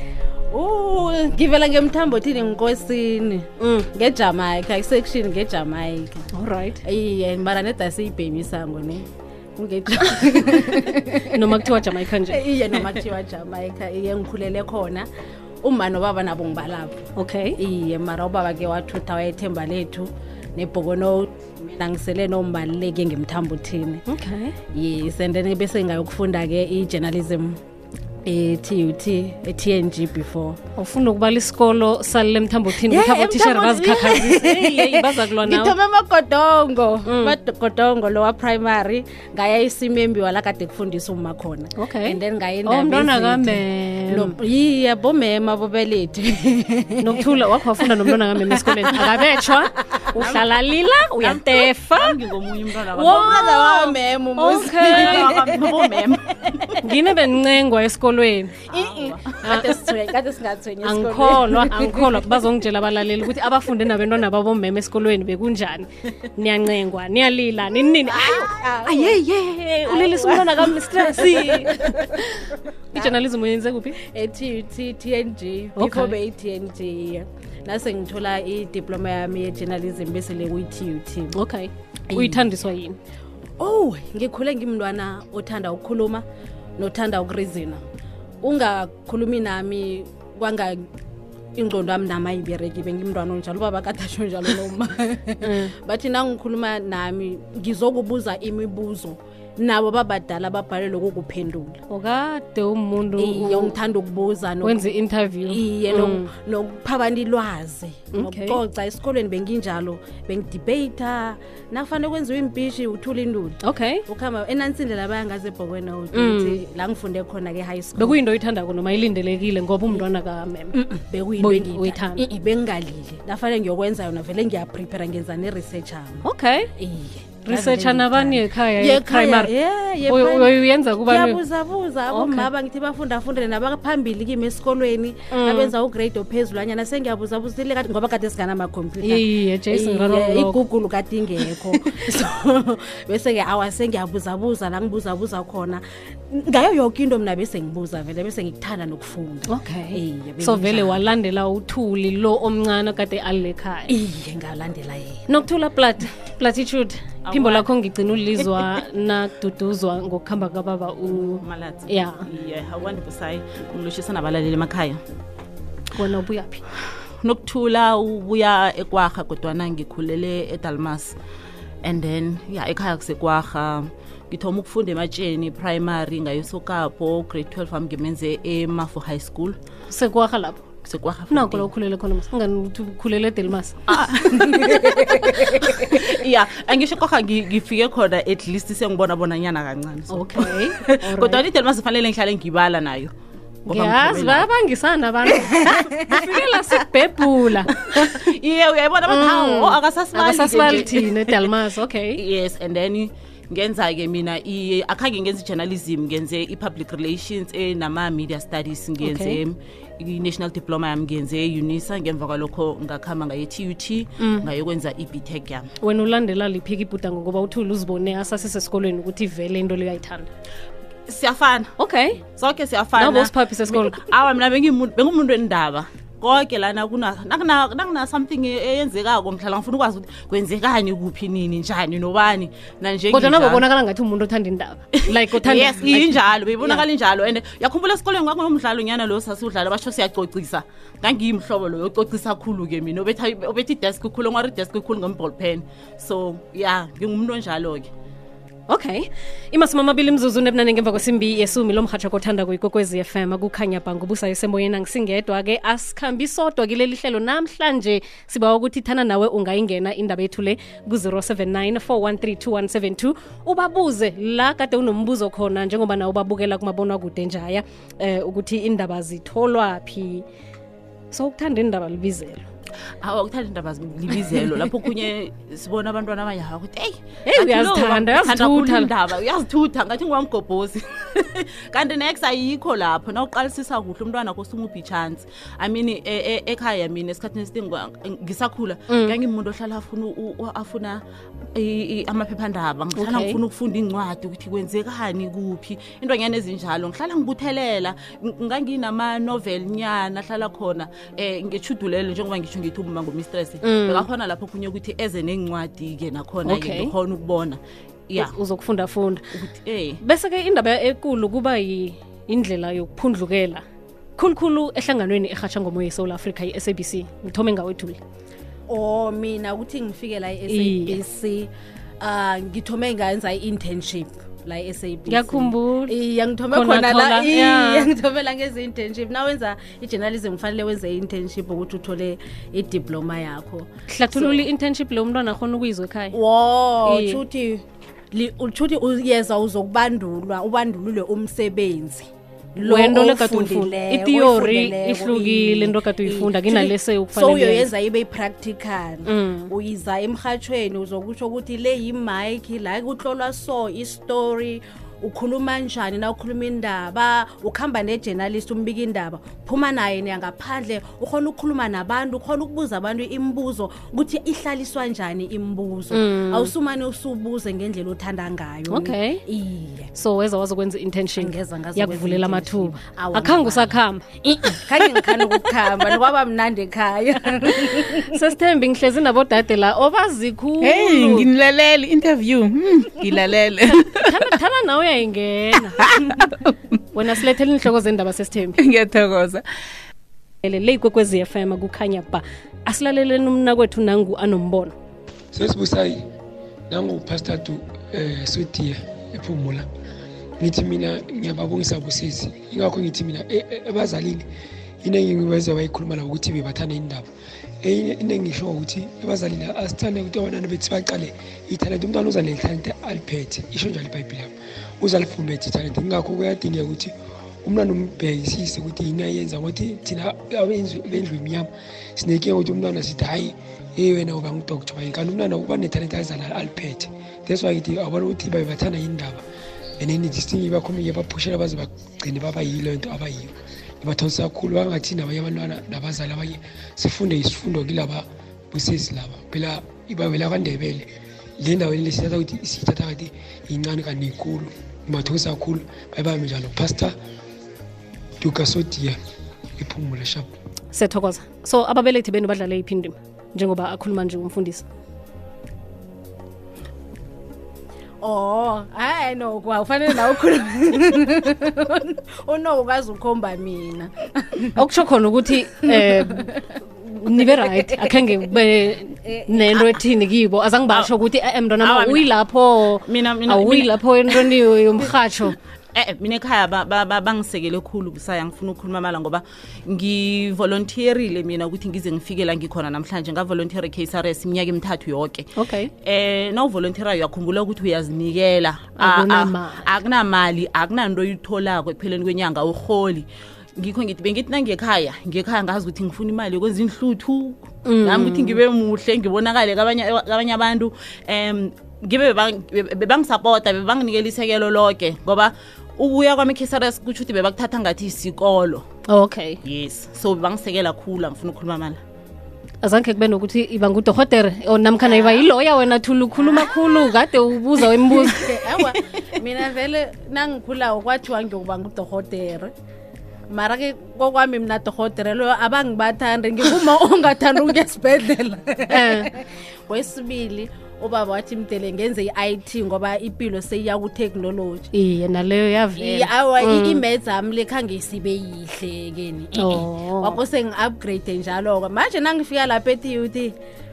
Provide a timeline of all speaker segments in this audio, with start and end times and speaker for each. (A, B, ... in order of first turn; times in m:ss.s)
0:00.5-0:06.3 A
0:03.6-0:03.9 B
0:06.3-0:06.8 B
0:06.8-0:15.1 A
0:10.4-0:12.4 B
0:15.6-0:17.1 A
0:17.2-0:17.6 B
0:17.6-0:24.0 A
0:24.1-0:24.6 B
0:24.7-0:27.6 A
0:28.2-0:30.6 A
0:30.8-0:35.7 B
0:32.8-0:49.6 A
0:37.0-0:37.4 B
0:41.8-0:44.3 B
0:47.0-0:52.2 B
0:51.2-0:54.0 C
0:53.0-0:56.7 A
0:53.0-0:53.6 B
0:54.4-0:55.3 B
0:54.8-0:56.7 C
0:56.8-0:58.6 B
0:58.7-0:59.4 C
0:58.7-1:02.4 A
1:00.8-1:14.0 B
1:08.0-1:09.2 A
1:09.9-1:12.2 A
1:14.0-1:21.4 A
1:15.8-1:16.2 B
1:21.3-1:23.0 B
1:22.1-1:22.4 A
1:23.6-1:26.2 A
1:26.8-1:27.8 A
1:28.4-1:30.9 A
1:31.6-1:41.8 A
1:35.4-1:35.7 B
1:41.9-1:43.8 B
1:43.2-1:44.8 A
1:44.6-1:46.3 B
1:45.5-1:58.2 A
1:48.1-1:48.6 B
1:53.6-1:54.0 B
1:56.1-1:56.6 B
1:58.0-2:00.8 B
2:00.7-2:06.2 A
2:01.4-2:02.2 B
2:06.2-2:06.7 B
2:06.8-2:31.0 A
2:07.5-2:09.5 B
2:10.0-2:11.4 B
2:12.1-2:12.5 B
2:15.3-2:15.7 B
2:19.0-2:20.6 B
2:29.5-2:33.9 B
2:33.9-2:35.2 A
2:35.3-2:42.2 B
2:37.2-2:37.7 C
2:41.1-2:45.0 C
2:46.0-2:46.6 B
2:47.2-2:51.1 C
2:51.8-2:59.6 C
2:59.9-3:00.6 B
3:00.8-3:01.7 C
3:01.3-3:03.8 B
3:03.9-3:13.1 C
3:04.5-3:04.8 A
3:10.1-3:11.4 B
3:13.7-3:18.2 B
3:13.7-3:14.5 C
3:17.8-3:21.5 C
3:19.1-3:22.2 B
3:22.2-3:35.7 C
3:29.0-3:29.4 B
3:34.2-3:34.5 B
3:35.8-3:40.3 B
3:41.1-3:41.7 C
3:41.8-3:42.2 B
3:42.4-3:53.6 C
3:43.0-3:44.0 B
3:53.1-3:56.8 B
3:55.0-4:07.9 C
4:08.7-4:30.2 B
4:31.1-4:32.4 B
4:33.0-4:51.0 C
4:37.3-4:38.9 B
4:48.9-4:49.2 B
4:51.5-5:08.3 C
4:53.0-4:53.4 B
5:03.6-5:04.1 B
5:06.5-5:06.9 B
5:08.2-5:09.2 B
5:09.3-5:10.0 C
5:10.0-5:13.6 B
5:14.2-5:18.0 B
5:18.7-5:21.5 A
5:20.5-5:21.0 B
5:22.0-5:34.4 A
5:25.1-5:26.0 B
5:26.5-5:27.9 B
5:33.9-5:36.2 B
5:36.1-6:09.9 A
5:36.8-5:37.2 B
5:42.6-5:47.7 B
5:49.1-5:49.5 B
6:05.9-6:06.5 B
6:08.7-6:09.2 B
6:10.0-6:14.0 B
6:11.2-6:18.2 A
6:18.1-6:21.3 B
6:20.6-6:24.4 D
6:23.6-6:26.2 B
6:25.8-6:26.5 D
6:26.9-6:28.6 B
6:28.6-6:29.4 D
6:30.4-6:34.7 B
6:35.3-6:36.0 E
6:36.7-6:39.7 E
6:40.4-6:44.3 E
6:44.8-6:47.1 E
6:47.6-7:09.2 E
7:09.8-7:20.9 E
7:21.4-7:27.0 E
7:28.2-7:29.0 E
7:29.6-7:30.3 E
7:30.7-7:34.6 B
7:38.0-7:44.5 A
7:44.6-7:55.4 B
7:45.7-7:46.4 A
7:47.4-7:47.9 A
7:49.1-7:49.7 A
7:51.6-7:52.1 C
7:52.9-7:54.2 C
7:55.7-8:05.3 C
8:05.4-8:05.7 B
8:05.8-8:13.1 C
8:08.8-8:09.6 B
8:13.6-8:28.6 C
8:17.7-8:18.4 B
8:28.9-8:29.4 B
8:29.4-8:31.8 C
8:32.6-8:38.4 B
8:34.8-8:35.2 A
8:36.2-8:36.9 A
8:37.7-8:42.5 A
8:43.3-8:54.7 A
8:48.7-8:49.1 B
8:54.7-8:56.8 B
8:55.8-9:03.3 A
8:59.4-9:00.2 B